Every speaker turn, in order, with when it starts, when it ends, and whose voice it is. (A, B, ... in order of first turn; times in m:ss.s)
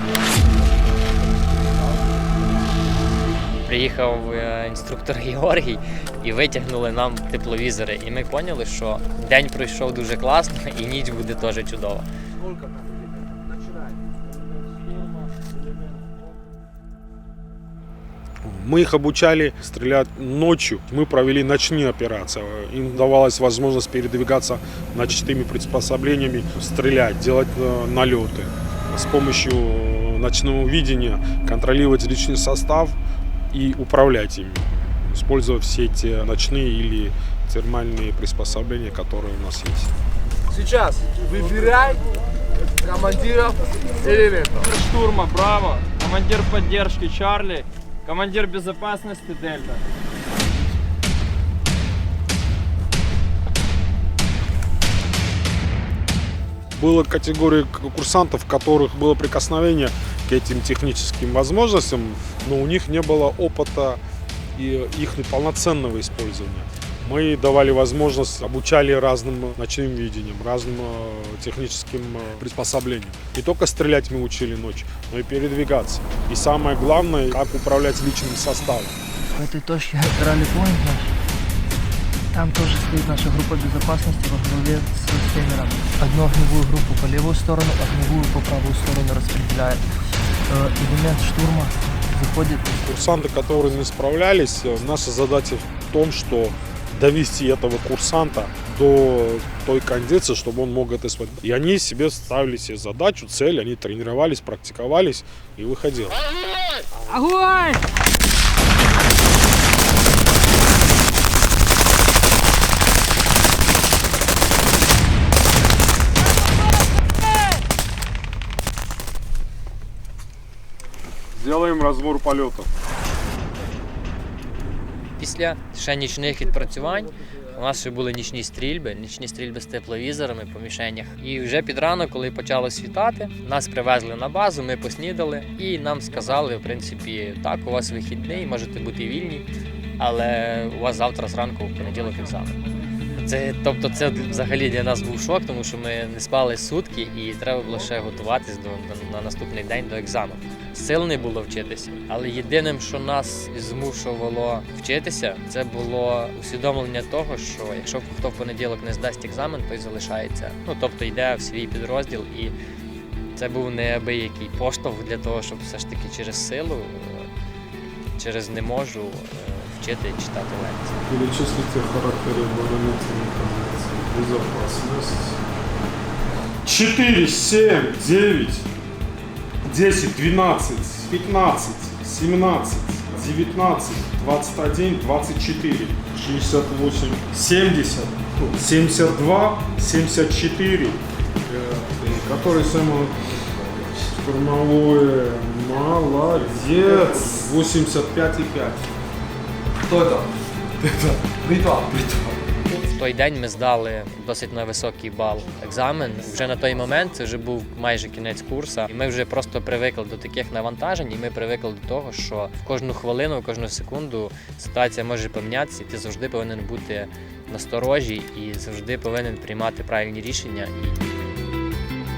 0:03.6-0:12.0 A
0:12.5-0:13.9 B
0:18.4-0:33.0 C
0:33.5-0:39.9 C
0:40.5-0:42.0 B
0:42.8-0:44.6 B
0:44.6-0:49.8 D
0:56.7-1:04.0 C
1:04.5-1:19.0 C
1:19.3-1:21.1 E
1:22.3-1:29.8 E
1:30.5-1:32.7 E
1:32.8-1:46.2 C
1:47.2-1:47.6 B
2:01.3-2:02.7 C
2:05.2-2:19.4 A
2:20.0-2:22.6 A
2:23.2-2:42.5 A
2:43.3-2:47.3 A
2:48.1-2:51.0 A
2:51.0-2:55.4 C
2:56.6-2:58.7 C
2:59.6-3:18.9 C
3:20.8-3:22.4 C
3:22.9-3:41.0 A